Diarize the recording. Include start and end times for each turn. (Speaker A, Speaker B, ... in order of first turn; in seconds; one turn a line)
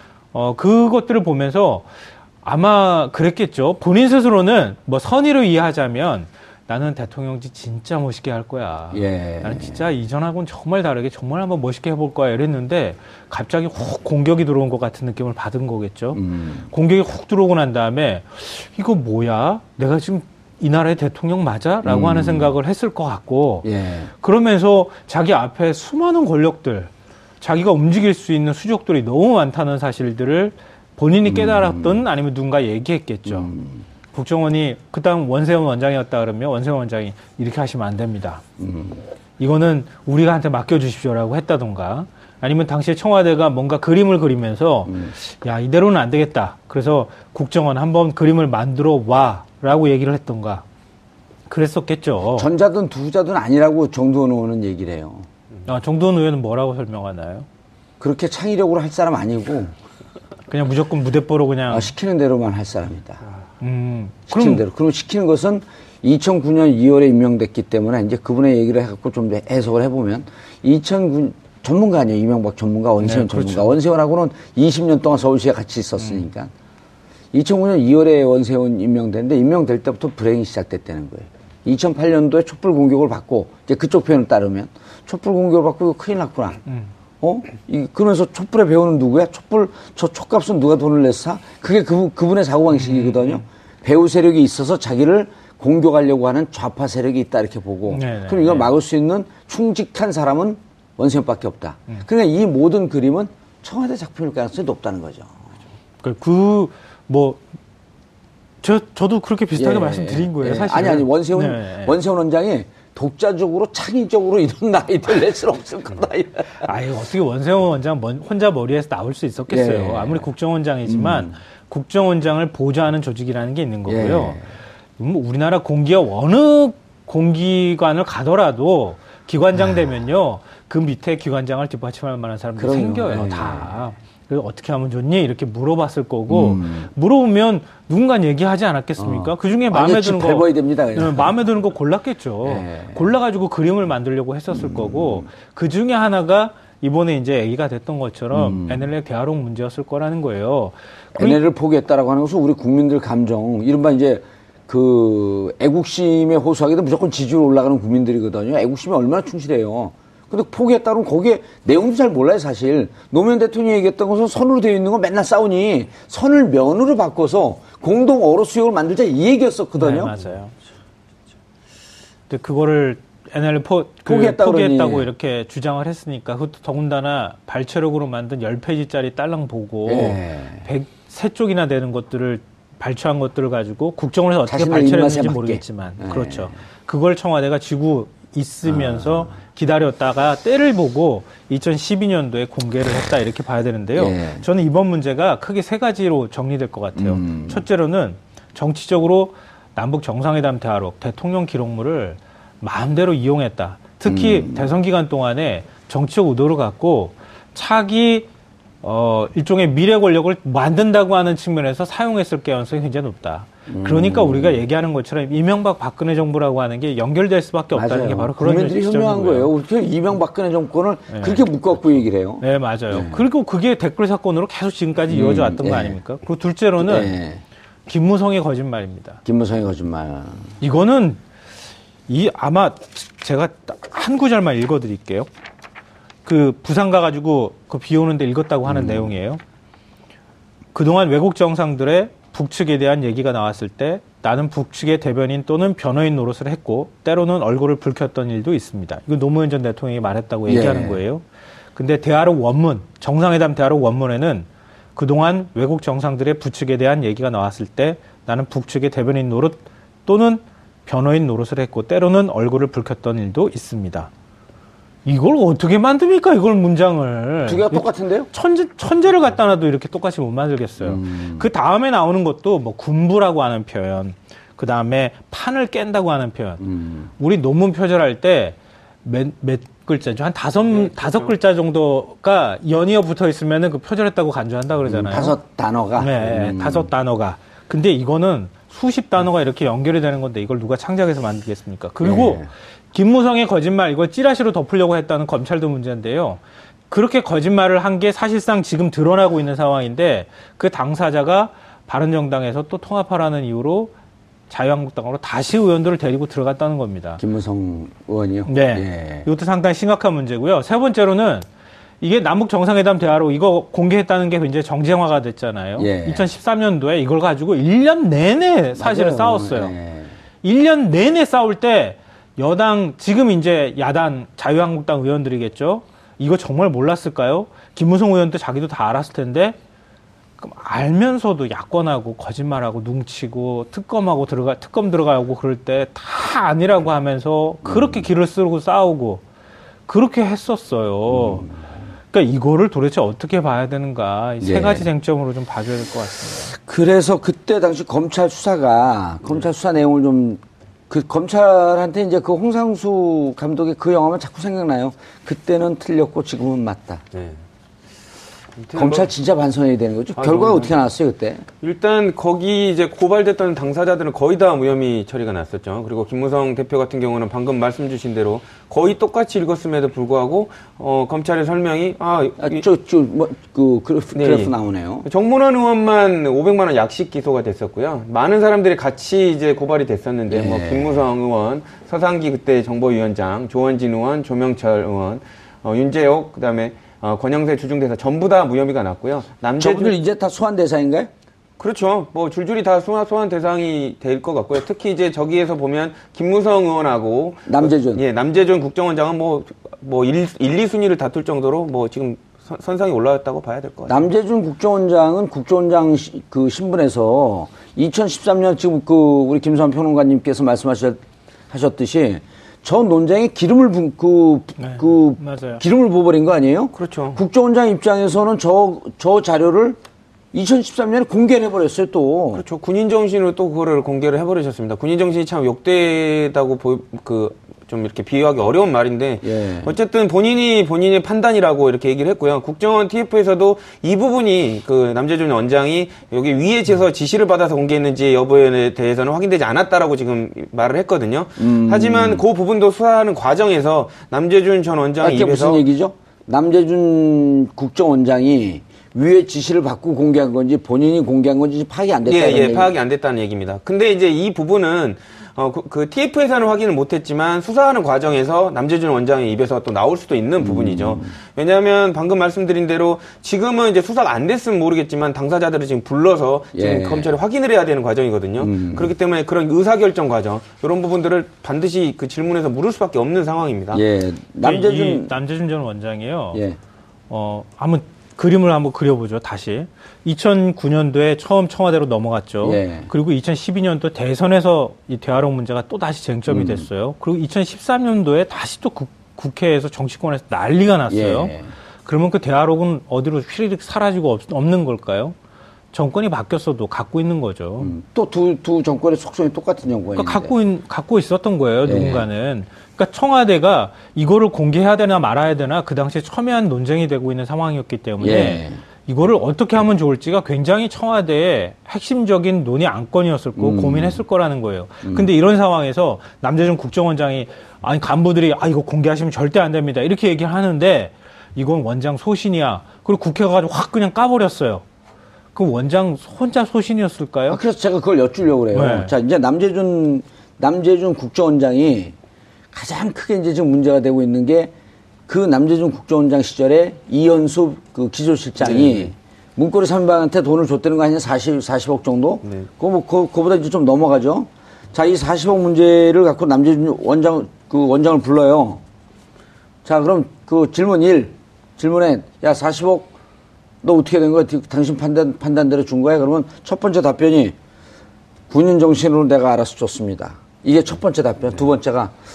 Speaker A: 0.3-1.9
Speaker A: 2.4-33.5
Speaker B: 8.9-9.8
Speaker B: 16.1-16.7
Speaker B: 21.8-22.5
Speaker B: 23.6-24.1
Speaker B: 31.2-32.0
Speaker B: 33.2-33.9
Speaker A: 34.1-38.4
Speaker B: 38.6-39.0
Speaker A: 39.4-50.6
Speaker B: 44.9-45.1
Speaker A: 51.5-52.5
Speaker B: 52.4-55.3
Speaker A: 55.7-57.5
Speaker B: 58.0-59.7
Speaker A: 60.5-61.9
Speaker B: 61.7-63.2
Speaker A: 63.6-64.6
Speaker B: 64.3-76.5
Speaker A: 73.0-73.7
Speaker A: 76.0-76.3
Speaker B: 77.3-86.6
Speaker B: 87.2-105.5
Speaker A: 92.8-93.4
Speaker A: 97.9-98.7
Speaker A: 106.0-107.4
Speaker A: 108.6-112.0
Speaker B: 109.5-116.7
Speaker A: 116.6-124.4
Speaker B: 119.5-120.3
Speaker B: 120.9-121.4
Speaker B: 123.9-124.5
Speaker A: 125.0-151.4
Speaker B: 132.6-133.8
Speaker B: 136.3-136.9
Speaker B: 139.0-141.4
Speaker B: 142.4-143.1
Speaker B: 144.5-145.3
Speaker B: 148.3-148.9
Speaker B: 151.1-170.1
Speaker A: 169.8-170.5
Speaker A: 172.3-208.3
Speaker B: 174.1-175.1
Speaker B: 179.9-180.7
Speaker B: 184.5-186.5
Speaker B: 188.6-189.4
Speaker B: 193.9-194.4
Speaker B: 196.9-197.6
Speaker B: 204.1-204.7
Speaker A: 208.8-219.5
Speaker B: 213.7-214.6
Speaker B: 217.7-223.3
Speaker A: 221.1-221.4
Speaker A: 222.4-227.2
Speaker B: 225.1-226.0
Speaker B: 226.8-227.4
Speaker A: 227.9-229.2
Speaker B: 229.2-230.6
Speaker A: 230.6-231.2
Speaker A: 232.1-235.3
Speaker A: 236.2-239.4
Speaker B: 238.6-239.1
Speaker A: 240.7-264.1
Speaker B: 250.5-251.0
Speaker A: 265.1-276.6
Speaker B: 267.4-268.3
Speaker B: 270.8-271.5
Speaker B: 276.6-277.1
Speaker A: 277.2-285.4
Speaker C: 280.8-281.3
Speaker B: 284.9-286.9
Speaker A: 286.0-303.9
Speaker B: 292.0-292.5
Speaker A: 304.5-307.2
Speaker B: 307.2-309.3
Speaker A: 308.5-311.4
Speaker A: 312.0-319.8
Speaker B: 315.8-316.3
Speaker B: 318.8-320.2
Speaker A: 320.4-329.6
Speaker A: 330.4-339.2
Speaker B: 337.6-338.0
Speaker A: 339.9-341.5
Speaker B: 341.1-341.6
Speaker A: 342.1-346.6
Speaker B: 344.4-344.9
Speaker B: 346.6-357.0
Speaker C: 357.1-357.4
Speaker C: 358.6-359.1
Speaker B: 358.7-361.5
Speaker C: 360.1-360.7
Speaker C: 361.6-372.6
Speaker B: 372.4-375.1
Speaker C: 374.1-374.5
Speaker C: 375.1-389.9
Speaker B: 380.3-381.0
Speaker B: 389.6-391.1
Speaker C: 391.6-404.1
Speaker B: 397.4-398.0
Speaker B: 403.9-419.8
Speaker A: 414.6-415.6
Speaker C: 416.7-417.2
Speaker B: 420.3-422.4
Speaker C: 422.3-445.6
Speaker B: 429.2-429.7
Speaker B: 441.4-442.2
Speaker B: 445.0-452.7
Speaker C: 452.1-473.8
Speaker B: 460.4-461.1
Speaker B: 466.5-467.1
Speaker B: 468.4-468.9
Speaker B: 473.7-475.1
Speaker A: 474.4-476.4
Speaker B: 476.3-476.6
Speaker A: 477.1-495.1
Speaker B: 482.4-482.9
Speaker B: 486.3-486.7
Speaker B: 490.9-491.5
Speaker A: 495.7-497.7
Speaker B: 497.6-500.4
Speaker A: 499.9-524.6
Speaker B: 501.6-502.1
Speaker B: 508.0-508.6
Speaker B: 513.4-514.0
Speaker B: 514.8-515.1
Speaker A: 525.4-527.4
Speaker B: 527.3-532.0
Speaker A: 528.5-528.9
Speaker B: 532.5-534.5
Speaker B: 535.1-548.6
Speaker C: 538.4-538.9
Speaker B: 549.6-552.9
Speaker B: 553.6-557.4
Speaker B: 558.3-561.9